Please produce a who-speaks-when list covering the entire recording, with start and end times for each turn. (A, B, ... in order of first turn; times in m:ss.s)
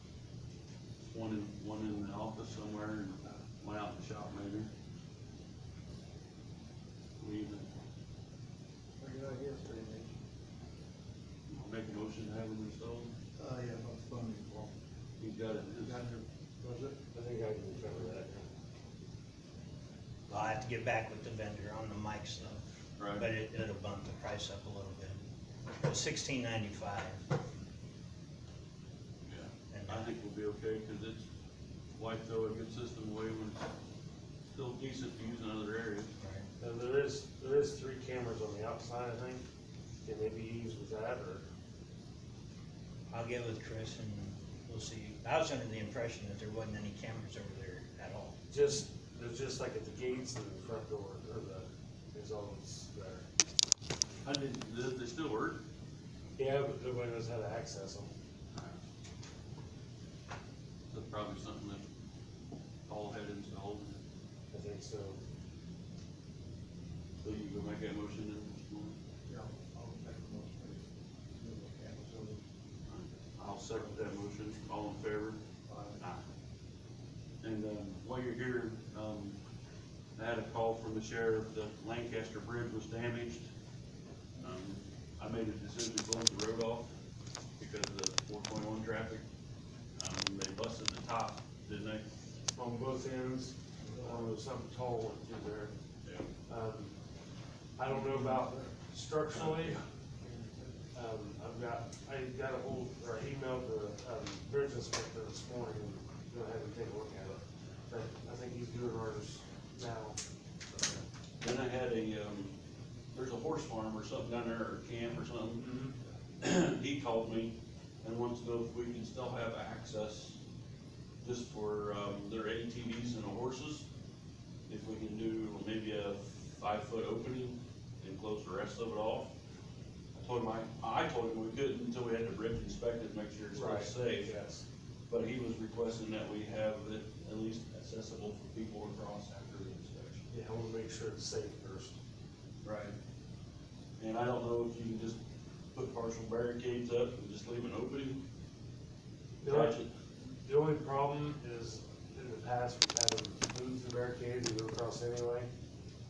0:01.1-0:04.7 A
0:07.2-0:07.7 A
0:09.0-0:10.2 B
0:11.5-0:13.1 A
0:13.4-0:14.7 B
0:15.2-0:16.0 A
0:15.8-0:17.0 B
0:17.1-0:18.4 C
0:20.3-0:22.6 D
0:23.0-0:23.2 A
0:23.1-0:25.2 D
0:25.8-0:27.2 D
0:29.2-0:31.2 A
0:29.7-0:30.0 D
0:32.0-0:33.7 A
0:34.5-0:36.1 A
0:36.2-0:36.5 D
0:36.6-0:39.4 C
0:40.0-0:41.4 C
0:43.1-0:48.4 D
0:48.5-0:53.2 C
0:54.2-0:55.6 A
0:56.4-0:58.1 C
0:58.5-0:58.8 A
1:00.9-1:01.8 A
1:02.9-1:04.0 A
1:04.5-1:05.2 C
1:07.2-1:09.0 A
1:09.3-1:10.8 B
1:11.4-1:12.4 B
1:12.9-1:15.4 A
1:15.7-1:16.0 B
1:17.4-1:19.4 A
1:20.2-1:23.4 A
1:24.4-1:26.9 A
1:27.6-1:29.2 A
1:30.0-1:32.0 A
1:32.5-1:35.7 C
1:33.8-1:34.2 B
1:36.5-1:36.9 C
1:37.8-1:39.8 C
1:37.9-1:38.7 B
1:39.3-1:39.8 A
1:40.2-1:40.8 B
1:40.9-1:50.2 C
1:51.4-1:52.5 A
1:53.1-1:55.6 A
1:55.6-1:55.9 C
1:56.4-2:00.4 A
2:01.2-2:03.9 A
2:04.7-2:09.3 A
2:10.2-2:14.4 A
2:13.5-2:14.6 C
2:15.1-2:20.2 A
2:20.3-2:22.0 C
2:22.6-2:23.0 A
2:24.0-2:25.2 A
2:25.7-2:28.2 A
2:29.4-2:29.9 A
2:29.4-2:29.8 C
2:30.4-2:35.5 C